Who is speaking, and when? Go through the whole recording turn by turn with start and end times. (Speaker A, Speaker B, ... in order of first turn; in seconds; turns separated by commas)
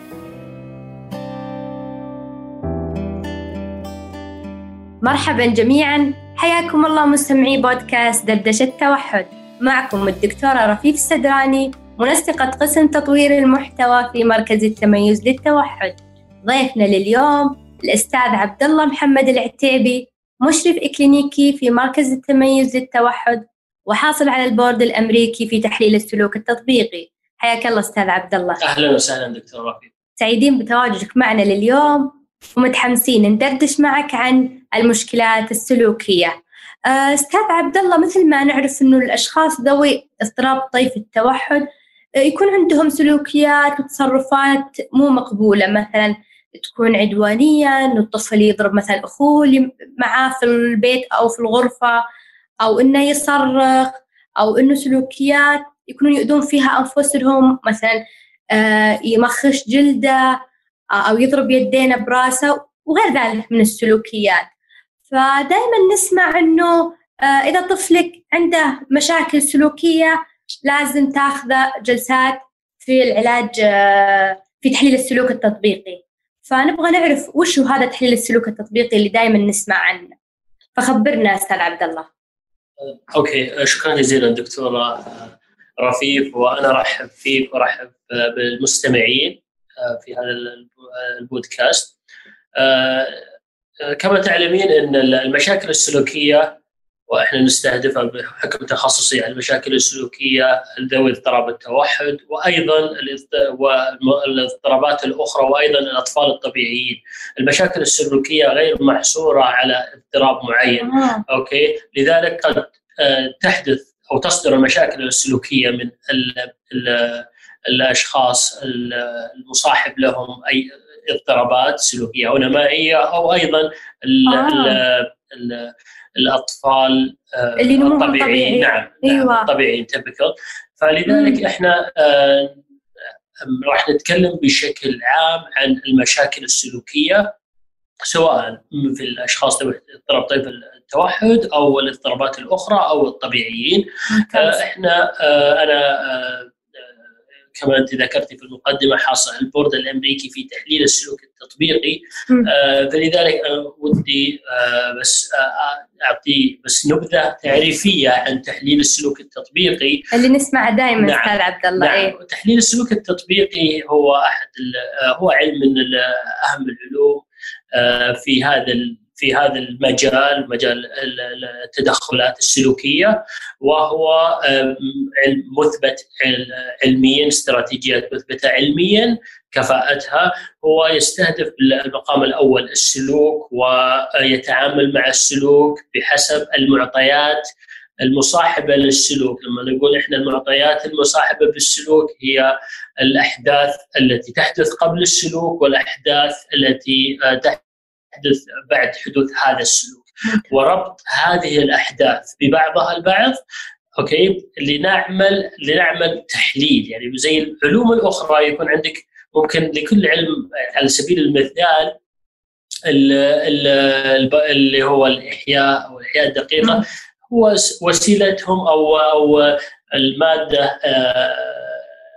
Speaker A: 5.0-28.6, Speaker B: 28.6-29.9, Speaker A: 30.2-36.4, Speaker A: 36.9-41.6, Speaker A: 42.2-52.0, Speaker A: 52.6-58.0, Speaker A: 58.5-60.4, Speaker A: 60.9-64.5, Speaker A: 65.1-80.1, Speaker A: 80.8-82.0, Speaker B: 83.1-91.9, Speaker B: 92.6-93.2, Speaker B: 93.8-96.6, Speaker B: 97.1-132.6, Speaker A: 110.8-111.2, Speaker A: 124.3-124.8, Speaker A: 127.6-129.5, Speaker A: 131.1-131.4, Speaker B: 133.4-137.3, Speaker B: 138.0-146.5, Speaker A: 144.1-144.6, Speaker B: 147.5-160.1, Speaker A: 160.1-162.1, Speaker B: 161.0-167.2, Speaker B: 167.7-187.4, Speaker B: 188.0-197.6, Speaker B: 198.1-203.4, Speaker A: 200.2-200.5, Speaker B: 204.0-211.9, Speaker B: 212.9-221.8